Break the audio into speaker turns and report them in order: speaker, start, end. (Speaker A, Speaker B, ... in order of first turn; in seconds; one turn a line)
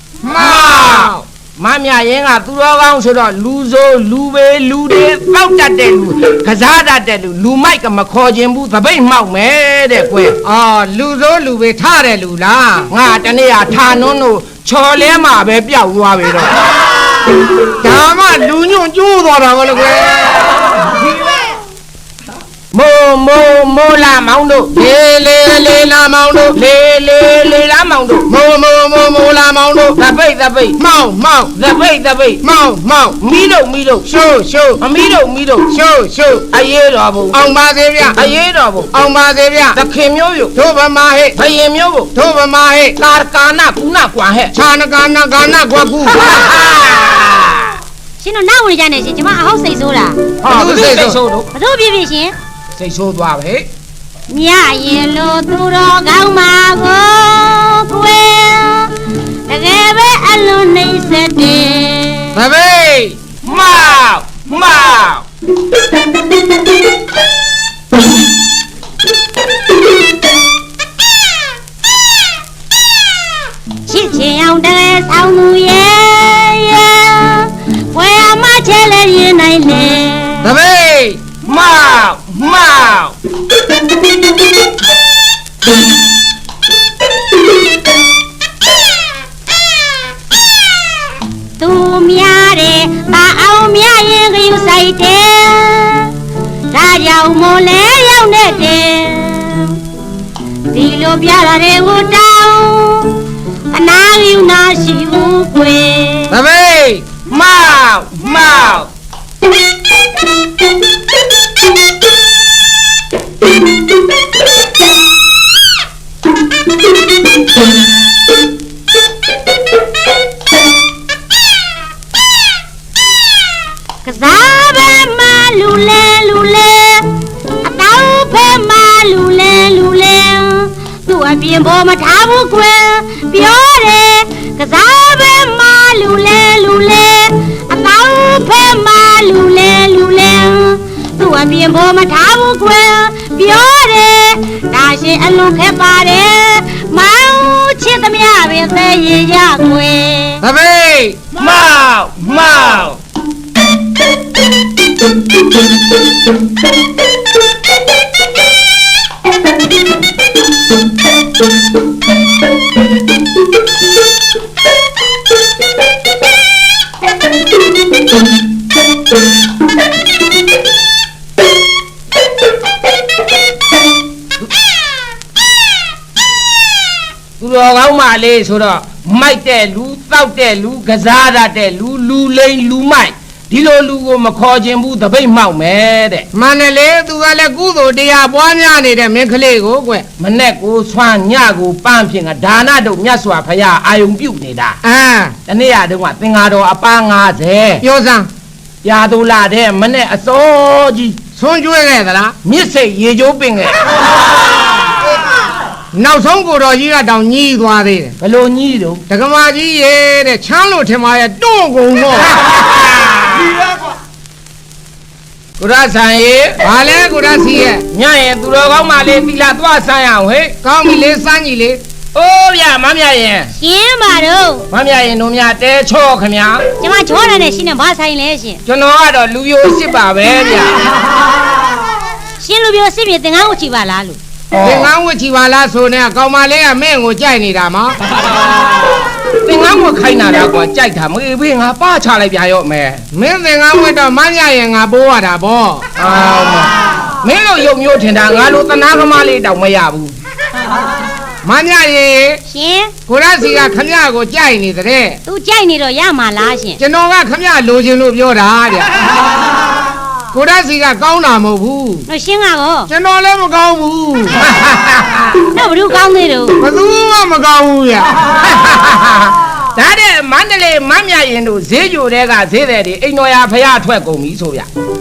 Speaker A: 0.2-1.2
Speaker B: 0.4-10.4
Speaker A: 10.4-12.9
Speaker B: 12.9-16.6
Speaker A: 17.8-20.6
Speaker B: 22.7-24.7
Speaker A: 24.7-26.6
Speaker B: 26.5-28.3
Speaker A: 28.3-30.0
Speaker B: 29.9-30.8
Speaker A: 30.8-31.5
Speaker B: 31.5-32.4
Speaker A: 32.4-33.2
Speaker B: 33.2-34.1
Speaker A: 34.1-34.8
Speaker B: 34.8-35.8
Speaker A: 35.7-36.4
Speaker B: 36.4-37.4
Speaker A: 37.3-38.2
Speaker B: 38.1-38.9
Speaker A: 38.9-39.8
Speaker B: 39.7-40.5
Speaker A: 40.5-41.4
Speaker B: 41.3-42.1
Speaker A: 42.1-43.0
Speaker B: 43.0-44.5
Speaker A: 44.5-46.3
Speaker B: 46.2-47.7
Speaker C: 48.2-50.2
Speaker B: 50.4-51.5
Speaker A: 50.5-51.2
Speaker C: 51.5-52.3
Speaker B: 52.8-53.7
Speaker C: 54.3-59.0
Speaker C: 59.5-62.4
Speaker A: 62.3-63.2
Speaker B: 63.4-65.2
Speaker C: 73.8-80.5
Speaker A: 80.4-81.2
Speaker B: 81.4-83.2
Speaker C: 91.6-96.2
Speaker C: 96.7-99.8
Speaker C: 100.7-103.2
Speaker C: 103.7-106.4
Speaker A: 106.3-107.0
Speaker B: 107.2-108.9
Speaker C: 124.0-150.4
Speaker A: 150.4-151.2
Speaker B: 151.3-153.0
Speaker B: 177.4-186.3
Speaker A: 186.3-190.1
Speaker B: 190.2-194.8
Speaker A: 194.8-195.3
Speaker B: 195.5-197.8
Speaker A: 197.8-198.3
Speaker B: 198.8-201.2
Speaker A: 201.3-202.3
Speaker B: 202.4-203.8
Speaker A: 205.9-208.1
Speaker B: 208.2-209.0
Speaker A: 209.1-212.3
Speaker B: 212.4-213.3
Speaker B: 215.6-216.6
Speaker A: 216.6-217.8
Speaker B: 217.9-220.5
Speaker A: 220.6-221.8
Speaker B: 222.1-223.5
Speaker C: 223.6-224.7
Speaker B: 224.7-226.6
Speaker C: 226.8-228.6
Speaker B: 228.7-230.8
Speaker C: 232.4-234.2
Speaker B: 234.5-234.9
Speaker A: 234.6-238.0
Speaker B: 239.4-243.0
Speaker A: 243.1-245.8
Speaker B: 245.9-250.1
Speaker A: 251.4-252.4
Speaker C: 252.5-252.9
Speaker A: 253.1-255.2
Speaker C: 255.2-256.8
Speaker A: 256.8-258.9
Speaker A: 260.3-262.1
Speaker C: 262.1-262.9
Speaker A: 262.9-264.5
Speaker B: 264.6-265.2
Speaker C: 265.4-266.6
Speaker A: 266.6-268.1
Speaker B: 268.4-274.7